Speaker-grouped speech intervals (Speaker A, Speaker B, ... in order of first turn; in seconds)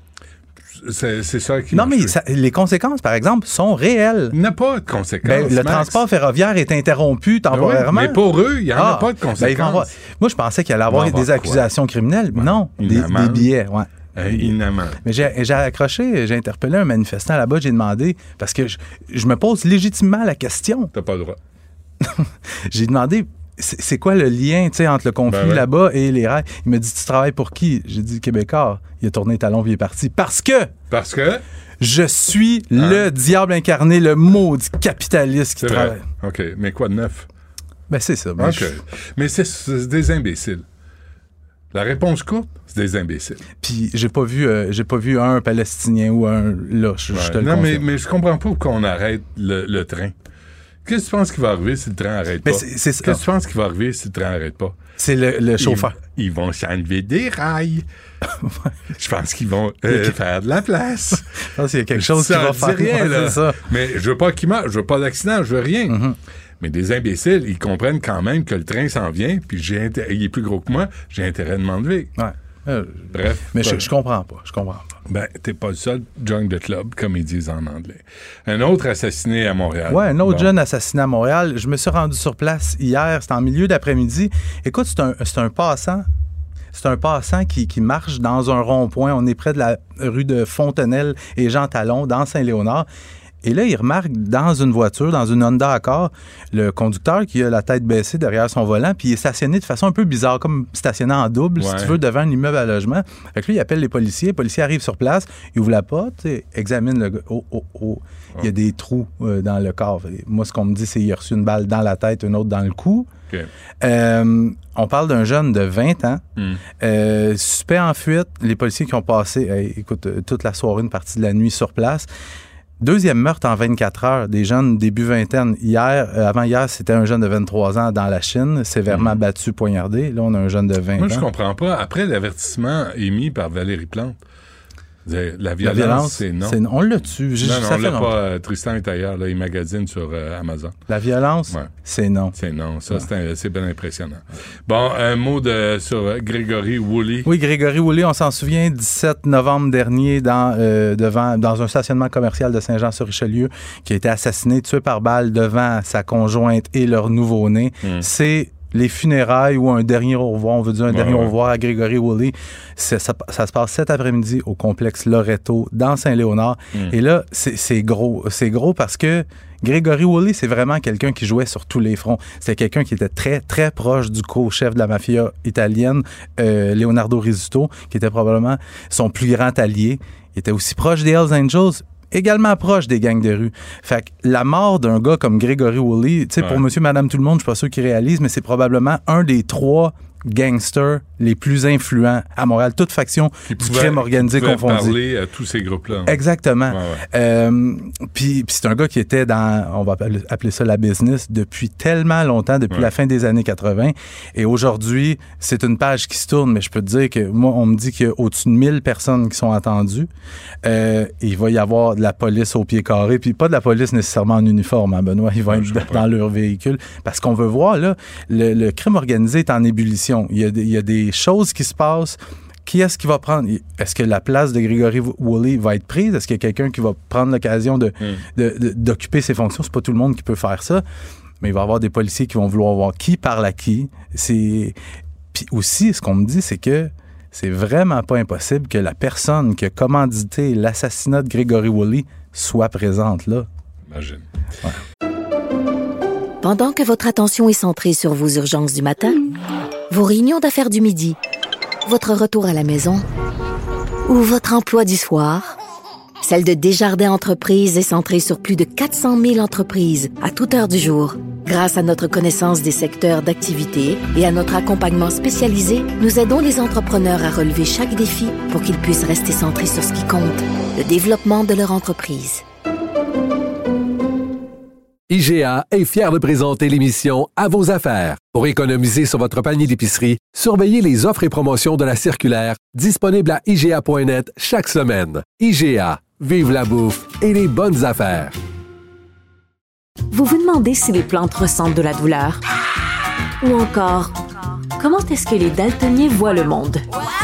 Speaker A: 0.8-2.2, 4.3-6.0, 7.5-9.9, 10.9-11.7, 12.3-13.5, 14.2-15.0, 20.9-21.4, 25.3-25.7, 30.9-31.4, 32.7-33.1, 35.6-37.3, 38.4-40.6, 41.7-43.4, 47.1-50.1, 50.8-54.8, 55.6-57.8, 59.0-61.2, 61.9-66.0, 66.6-72.1, 73.1-73.9, 75.1-80.5, 101.6-102.0, 128.9-129.2, 131.0-134.2, 135.1-136.6, 137.3-140.8, 142.3-147.3, 160.9-161.3, 186.4-186.6, 193.5-196.2, 196.7-197.0, 215.5-216.0, 243.9-244.7
Speaker B: 1.7-4.3, 5.2-20.9, 22.0-30.7, 31.8-36.0, 37.9-38.7, 43.6-47.8, 52.4-53.2, 55.0-56.0, 59.9-60.2, 61.6-63.6, 65.9-66.2, 72.2-74.9, 79.9-86.1, 86.7-92.9, 93.4-113.1, 113.8-116.2, 116.8-122.1, 122.8-131.2, 135.6-138.1, 140.9-142.3, 147.2-194.9, 196.1-210.1, 210.6-230.8, 231.4-234.7, 235.3-243.5
Speaker C: 246.4-249.2, 249.9-251.2, 251.8-253.0, 254.1-255.5, 256.2-272.4
Speaker D: 275.1-288.3
Speaker E: 290.1-292.4, 293.4-294.1, 294.8-296.8